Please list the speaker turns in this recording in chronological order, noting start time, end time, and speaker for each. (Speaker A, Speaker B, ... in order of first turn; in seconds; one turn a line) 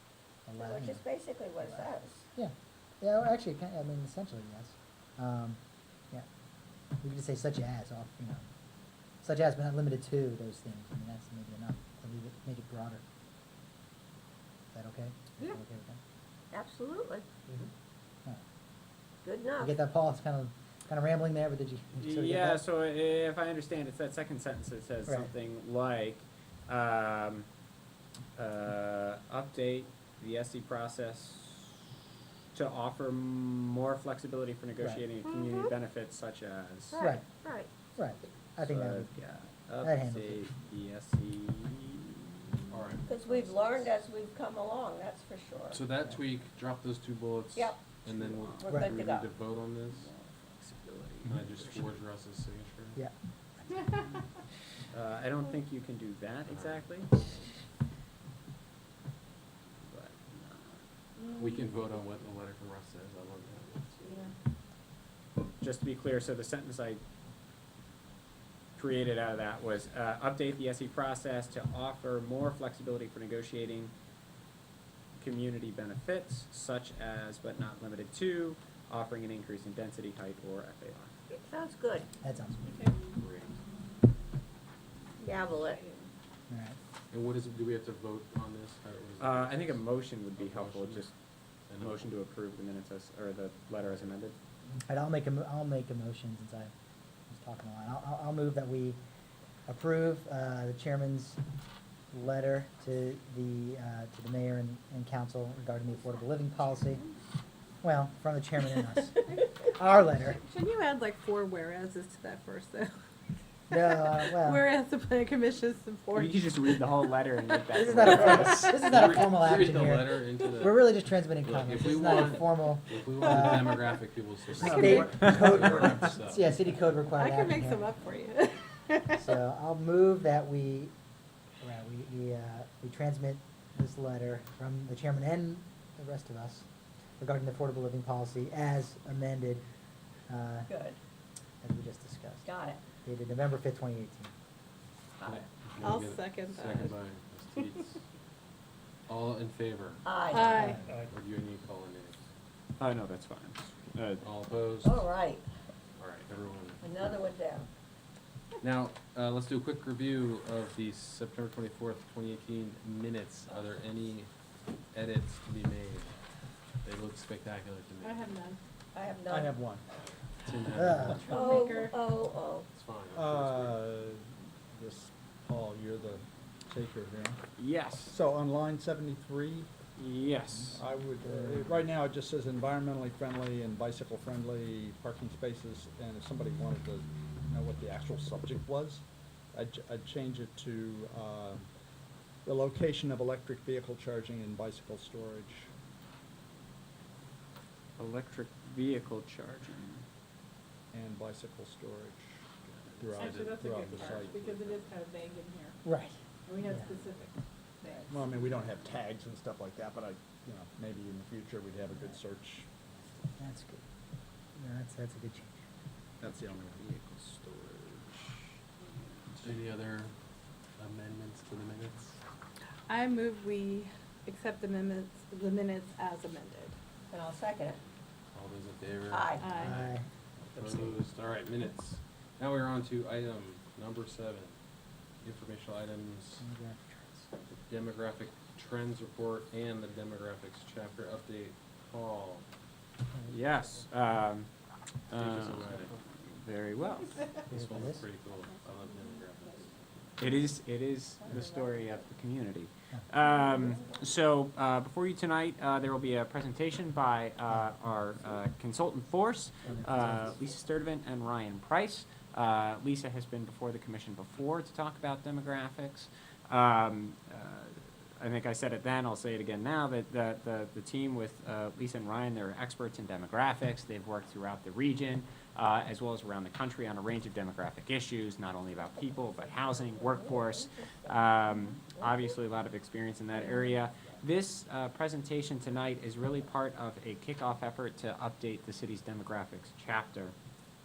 Speaker A: 0.5-1.0
Speaker B: 0.6-2.2
Speaker A: 1.7-5.6
Speaker A: 7.0-8.5
Speaker A: 9.2-13.0
Speaker A: 14.7-16.0
Speaker B: 16.5-17.3
Speaker B: 19.2-19.8
Speaker A: 19.6-22.6
Speaker C: 22.0-27.5
Speaker C: 28.4-31.9
Speaker C: 32.5-37.0
Speaker B: 36.9-37.7
Speaker A: 38.0-39.1
Speaker C: 38.6-43.9
Speaker A: 39.8-40.4
Speaker D: 42.7-43.1
Speaker B: 43.1-45.8
Speaker D: 45.7-50.1
Speaker B: 47.6-48.0
Speaker C: 48.3-49.0
Speaker B: 48.5-49.3
Speaker A: 48.7-48.9
Speaker C: 50.6-51.9
Speaker D: 51.2-53.0
Speaker C: 54.9-57.3
Speaker D: 56.5-56.9
Speaker C: 59.8-60.8
Speaker D: 61.3-64.0
Speaker B: 64.0-64.3
Speaker C: 65.6-67.0
Speaker C: 68.8-73.9
Speaker C: 75.2-81.1
Speaker B: 81.3-82.1
Speaker A: 82.2-82.9
Speaker E: 82.7-82.9
Speaker D: 83.2-83.6
Speaker B: 85.2-85.8
Speaker E: 85.7-86.0
Speaker A: 86.5-86.8
Speaker D: 87.1-91.1
Speaker C: 89.2-91.1
Speaker D: 91.7-92.1
Speaker C: 91.8-94.3
Speaker A: 94.9-96.7
Speaker A: 97.3-99.0
Speaker A: 99.7-101.4
Speaker A: 102.1-107.0
Speaker A: 107.8-110.4
Speaker E: 110.1-112.9
Speaker A: 113.7-114.7
Speaker E: 114.2-117.0
Speaker C: 116.1-118.7
Speaker A: 117.7-123.8
Speaker D: 118.3-126.5
Speaker A: 124.6-127.9
Speaker E: 124.7-125.7
Speaker E: 127.2-129.3
Speaker A: 129.2-130.9
Speaker A: 131.6-136.7
Speaker A: 137.2-139.6
Speaker A: 140.3-140.7
Speaker B: 140.7-141.0
Speaker A: 141.6-142.5
Speaker B: 142.4-142.8
Speaker A: 143.0-144.3
Speaker D: 145.2-148.0
Speaker B: 145.2-145.5
Speaker E: 145.8-147.0
Speaker D: 149.1-150.2
Speaker B: 150.0-150.8
Speaker E: 150.3-150.8
Speaker A: 150.5-150.8
Speaker D: 151.0-152.2
Speaker C: 152.8-154.3
Speaker D: 154.2-155.1
Speaker B: 154.8-155.5
Speaker D: 156.0-157.2
Speaker B: 156.8-157.7
Speaker D: 158.6-164.3
Speaker D: 164.9-166.1
Speaker D: 166.8-168.3
Speaker E: 168.0-168.6
Speaker B: 168.9-169.5
Speaker F: 169.3-169.8
Speaker D: 170.5-171.4
Speaker A: 170.8-171.2
Speaker E: 171.0-172.0
Speaker B: 171.3-172.7
Speaker D: 172.7-173.8
Speaker F: 173.1-177.4
Speaker C: 177.6-178.2
Speaker F: 178.1-179.7
Speaker C: 180.0-180.8
Speaker A: 180.6-181.9
Speaker F: 180.8-189.0
Speaker F: 189.5-191.7
Speaker F: 192.4-195.7
Speaker C: 198.0-200.0
Speaker F: 200.9-202.4
Speaker D: 202.8-204.9
Speaker F: 203.0-204.5
Speaker E: 203.2-205.8
Speaker A: 205.8-206.9
Speaker E: 206.5-208.1
Speaker F: 208.1-212.7
Speaker A: 213.4-213.8
Speaker A: 214.6-215.6
Speaker F: 216.2-218.3
Speaker D: 219.4-220.1
Speaker D: 220.8-222.2
Speaker E: 222.9-226.8
Speaker B: 227.1-227.8
Speaker D: 228.3-229.9
Speaker B: 229.1-229.6
Speaker E: 229.4-229.8
Speaker A: 229.6-230.0
Speaker D: 230.6-234.6
Speaker D: 235.2-236.4
Speaker A: 236.4-237.3
Speaker D: 237.7-242.4
Speaker C: 243.3-244.5
Speaker C: 245.1-247.2
Speaker D: 245.1-245.9
Speaker D: 247.4-249.7
Speaker A: 247.5-248.0
Speaker C: 250.2-290.3
Speaker B: 251.3-252.0
Speaker B: 253.7-254.0
Speaker A: 259.7-260.3
Speaker B: 279.2-282.4